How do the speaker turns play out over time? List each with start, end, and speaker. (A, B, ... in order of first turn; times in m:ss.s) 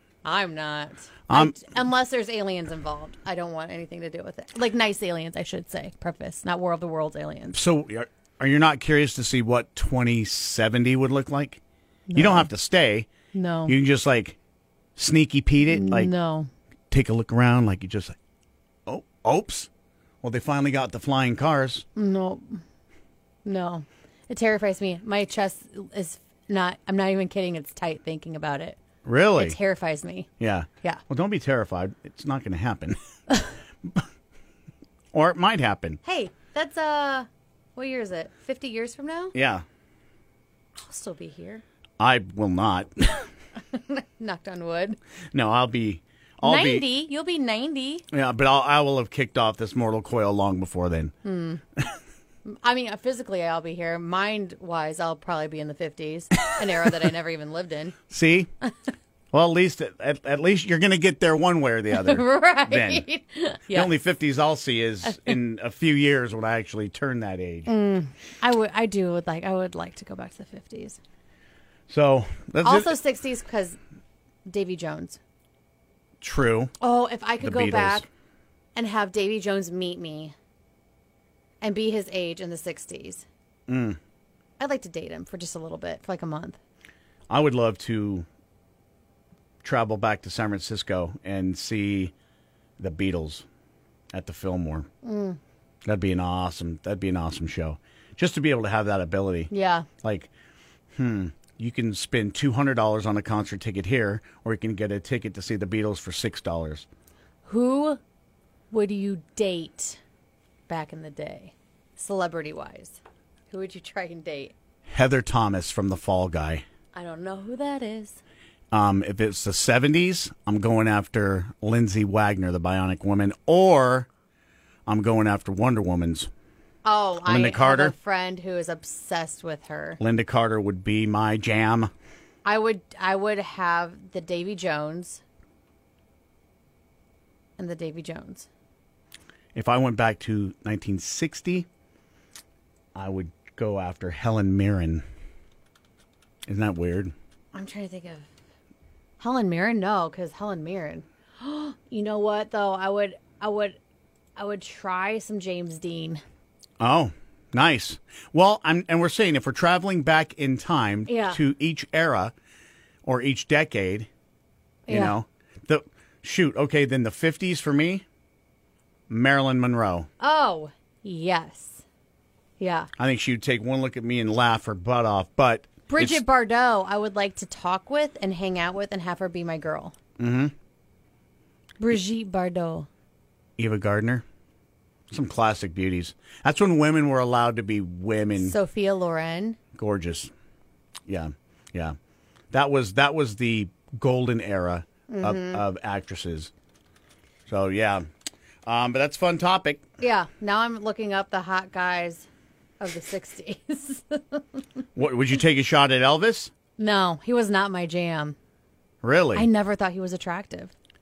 0:00.2-0:07.6 A
0:01.3-0:01.6 B
0:07.5-0:11.6 B
0:12.1-0:12.5 A
0:12.1-0:13.1 B
0:13.3-0:13.7 A
0:13.7-0:14.4 B
0:15.0-0:16.1 B
0:15.7-0:16.5 A
0:16.9-0:18.2 B
0:18.9-0:19.7 B
0:20.2-0:21.8 B
0:22.0-0:22.6 A
0:23.4-0:28.8 A
0:29.0-0:29.6 B
0:29.4-0:30.3 A
0:30.4-0:33.0 B
0:35.1-0:36.0 B
0:36.0-0:39.3 A
0:39.3-0:39.6 B
0:40.8-0:41.6 A
0:42.0-0:43.2 B
0:43.7-0:45.0 A
0:45.3-0:46.8 B
0:46.4-0:48.0 A
0:48.1-0:51.1 B
0:51.2-0:51.6 A
0:52.4-0:58.0 A
0:58.1-0:58.5 B
0:59.3-1:03.0 B
1:01.9-1:03.9 A
1:03.7-1:07.7 B
1:05.0-1:05.4 A
1:07.6-1:11.0 A
1:11.9-1:12.9 B
1:12.6-1:13.8 A
1:14.5-1:15.2 A
1:16.2-1:16.7 B
1:16.8-1:18.1 A
1:17.4-1:18.0 B
1:18.7-1:20.3 A
1:21.6-1:23.2 A
1:23.7-1:24.0 B
1:24.6-1:26.6 A
1:27.3-1:28.2 B
1:29.6-1:32.1 B
1:32.8-1:33.4 B
1:34.1-1:34.9 B
1:35.0-1:35.4 A
1:35.8-1:39.5 B
1:39.5-1:39.9 A
1:40.0-1:40.3 B
1:40.9-1:46.8 B
1:47.4-1:48.0 A
1:48.7-1:50.0 A
1:50.7-1:53.0 A
1:53.5-1:54.5 A
1:54.9-1:56.6 B
1:56.9-1:58.2 A
1:58.7-2:04.1 B
2:04.9-2:06.3 B
2:06.8-2:10.0 A
2:07.2-2:07.9 B
2:10.0-2:11.9 B
2:12.4-2:15.2 A
2:17.6-2:18.5 A
2:19.5-2:21.7 B
2:22.9-2:25.0 B
2:26.4-2:27.1 B
2:27.5-2:28.3 A
2:29.2-2:33.8 A
2:34.4-2:36.2 A
2:36.8-2:42.3 B
2:41.0-2:41.4 A
2:43.0-2:44.1 B
2:44.9-2:45.2 A
2:44.9-2:48.0 B
2:49.1-2:50.1 B
2:50.2-2:51.8 A
2:52.6-2:52.9 A
2:53.0-2:56.2 B
2:55.9-3:00.0 A
3:00.2-3:00.5 B
3:01.8-3:02.9 A
3:03.6-3:04.2 B
3:05.1-3:08.5 B
3:08.4-3:09.6 A
3:09.7-3:10.3 B
3:11.1-3:12.0 B
3:12.5-3:16.5 B
3:15.1-3:15.6 A
3:17.5-3:18.0 B
3:18.6-3:19.8 B
3:20.0-3:22.3 A
3:22.8-3:24.6 A
3:24.9-3:26.5 B
3:26.8-3:28.4 A
3:29.0-3:29.4 B
3:29.3-3:30.7 A